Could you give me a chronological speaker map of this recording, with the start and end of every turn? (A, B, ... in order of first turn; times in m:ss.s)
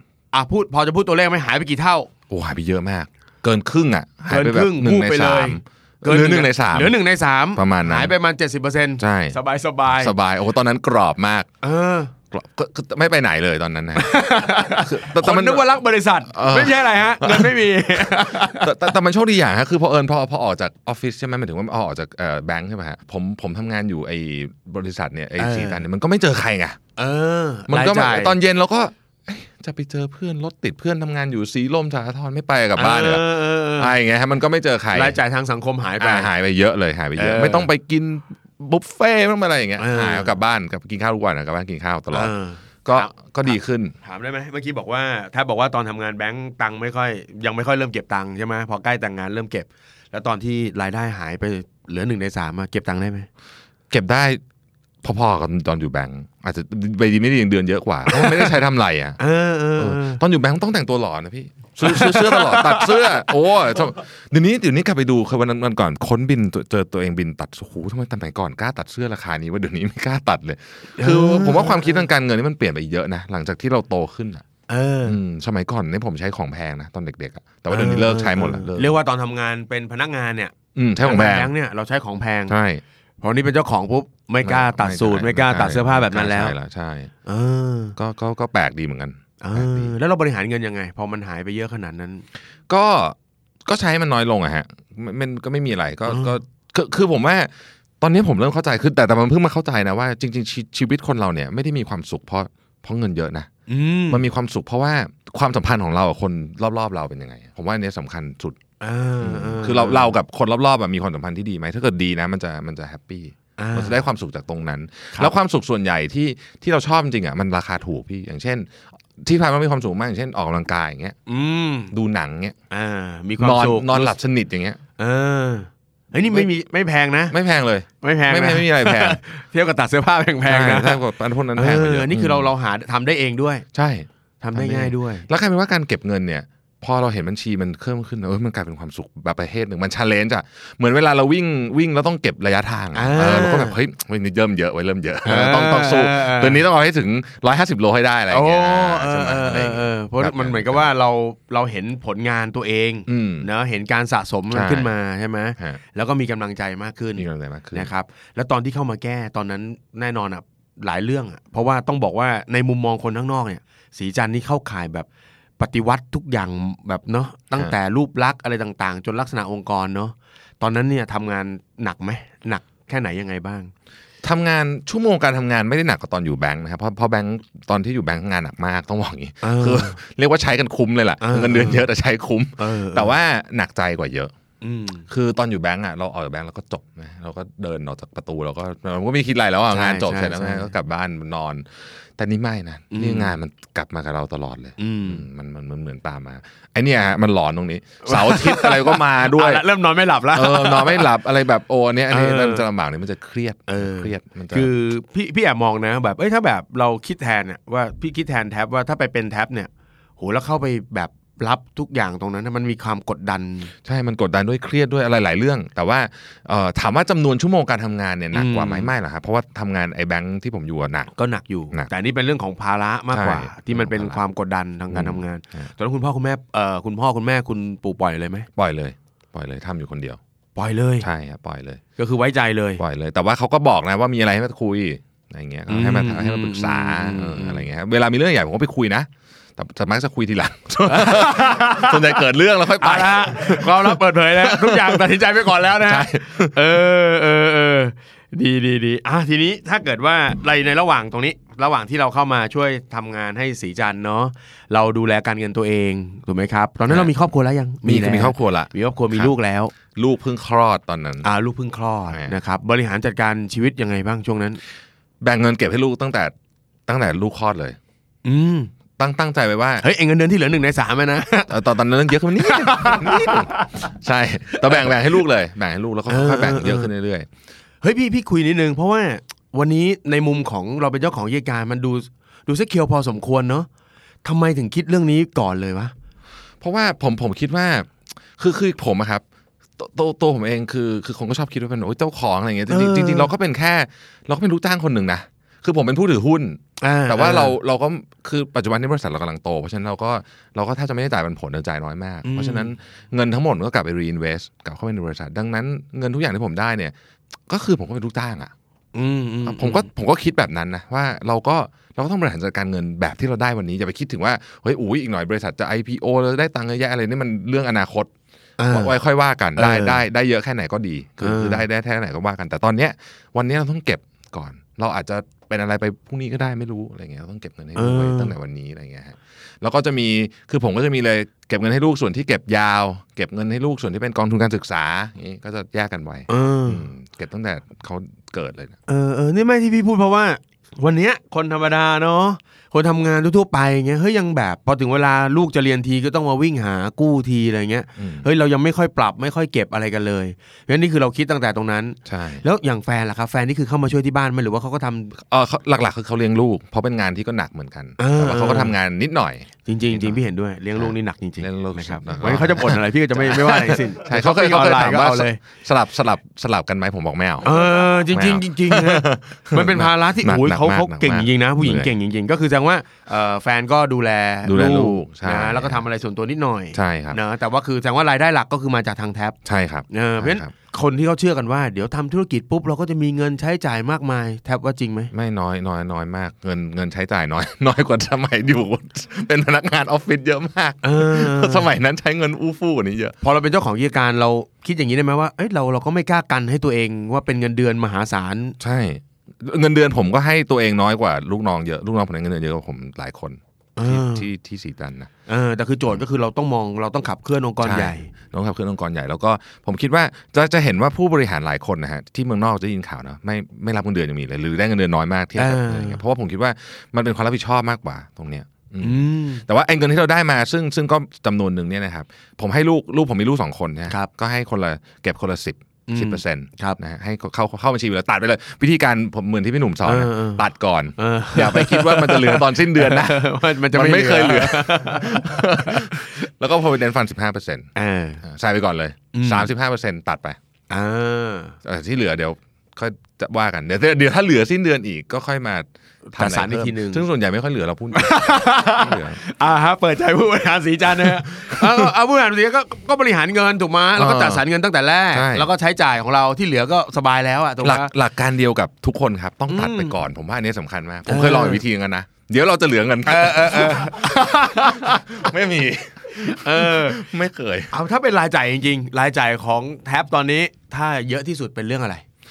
0:00.3-0:02.1 A
0:02.3-0:07.0 B
0:04.3-0:10.1 A
0:07.5-0:08.1 B
0:09.0-0:09.4 B
0:09.9-0:11.5 B
0:11.6-0:12.1 A
0:12.3-0:14.2 B
0:14.0-0:18.8 A
0:14.7-0:15.7 B
0:16.3-0:26.8 B
0:25.4-0:25.8 A
0:27.0-0:28.4 A
0:27.7-0:33.2 B
0:32.8-0:33.9 A
0:33.8-0:35.2 B
0:34.9-0:36.3 A
0:36.0-0:42.3 B
0:37.2-0:37.7 A
0:39.8-0:40.3 A
0:42.1-0:53.3 A
0:42.8-0:43.9 B
0:53.9-0:54.4 B
0:55.0-0:59.2 B
0:58.1-0:58.5 A
0:59.2-1:00.2 A
0:59.8-1:14.4 B
1:01.8-1:03.1 A
1:11.0-1:12.0 A
1:14.7-1:15.2 A
1:15.0-1:19.0 B
1:17.7-1:22.5 A
1:20.7-1:21.5 B
1:22.5-1:22.8 B
1:23.2-1:26.5 A
1:24.4-1:27.1 B
1:27.2-1:28.0 A
1:28.0-1:29.9 B
1:29.4-1:32.2 A
1:32.7-1:43.5 B
1:36.1-1:36.3 A
1:43.7-1:44.2 A
1:44.1-1:48.6 B
1:48.8-1:50.1 A
1:49.2-2:01.1 B
1:53.6-1:54.0 A
2:01.3-2:01.9 A
2:01.9-2:02.6 B
2:02.7-2:04.1 A
2:03.4-2:04.8 B
2:05.0-2:07.4 A
2:06.2-2:06.5 B
2:07.3-2:09.2 B
2:08.0-2:13.6 A
2:10.4-2:12.5 B
2:13.7-2:30.8 B
2:14.4-2:15.2 A
2:22.9-2:23.8 A
2:25.2-2:26.6 A
2:28.3-2:45.1 A
2:33.1-2:33.5 B
2:34.5-2:34.9 B
2:37.2-2:37.9 B
2:45.6-2:53.7 A
2:54.2-3:04.3 B
2:59.4-3:00.0 A
3:01.2-3:01.8 A
3:02.6-3:03.1 A
3:04.6-3:05.0 A
3:05.1-3:19.6 B
3:09.7-3:10.7 A
3:12.9-3:13.3 A
3:14.8-3:15.2 A
3:18.0-3:21.2 A
3:20.3-3:24.7 B
3:22.1-3:22.6 A
3:23.7-3:33.7 A
3:33.8-3:41.1 B
3:38.3-3:38.9 A
3:41.2-3:48.5 A
3:43.1-3:44.2 B
3:44.9-3:45.7 B
3:48.6-3:50.2 B
3:50.6-3:51.1 A
3:51.0-3:51.8 B
3:52.0-3:52.8 A
3:52.8-4:05.1 B
3:55.7-3:57.6 A
4:00.9-4:02.2 A
4:02.8-4:19.7 A
4:05.8-4:06.7 B
4:16.9-4:17.1 B
4:17.8-4:19.3 B
4:19.9-4:21.3 B
4:21.2-4:24.6 A
4:22.1-4:22.4 B
4:25.2-4:26.3 B
4:26.9-4:27.8 B
4:28.2-4:28.7 A
4:29.0-4:29.8 B
4:29.8-4:31.6 A
4:31.5-4:37.3 B
4:32.3-4:33.9 A
4:34.5-4:34.9 A
4:36.1-4:36.9 A
4:37.8-4:43.7 A
4:44.2-4:45.9 A
4:46.6-4:49.2 B
4:49.8-5:06.9 B
4:52.7-4:53.3 A
4:56.8-4:57.6 A
5:02.2-5:02.7 A
5:07.5-5:08.5 B
5:08.9-5:09.9 A
5:09.4-5:18.1 B
5:18.6-5:18.9 A
5:18.7-5:38.8 B
5:19.6-5:20.0 A
5:21.2-5:21.6 A
5:27.8-5:28.3 A
5:36.3-5:36.9 A
5:38.9-5:55.2 A
5:48.0-5:48.2 B
5:52.0-5:52.4 B
5:55.2-6:00.2 B
5:58.0-5:58.8 A
5:59.6-6:05.4 A
6:00.8-6:11.9 B
6:07.4-6:19.4 A
6:14.4-6:15.8 B
6:16.7-6:17.2 B
6:19.4-6:20.5 B
6:19.9-6:25.1 A
6:25.1-6:33.1 B
6:30.8-6:31.7 A
6:33.2-6:38.6 A
6:38.6-6:45.1 B
6:43.8-6:44.3 A
6:45.3-6:48.1 A
6:47.6-7:17.7 B
6:55.4-6:56.0 A
6:58.8-6:59.4 A
7:05.9-7:06.8 A
7:09.8-7:10.4 A
7:11.0-7:16.0 A
7:17.8-7:18.2 A
7:18.2-7:20.4 B
7:19.1-7:19.5 A
7:20.7-7:21.6 A
7:21.6-7:29.2 B
7:26.1-7:27.0 A
7:27.9-7:37.9 A
7:31.4-7:31.8 B
7:34.0-7:34.4 B
7:35.1-7:35.5 B
7:37.6-7:47.7 B
7:39.5-7:40.0 A
7:41.0-7:41.6 A
7:43.0-7:45.1 A
7:46.2-7:47.1 A
7:47.7-7:52.0 A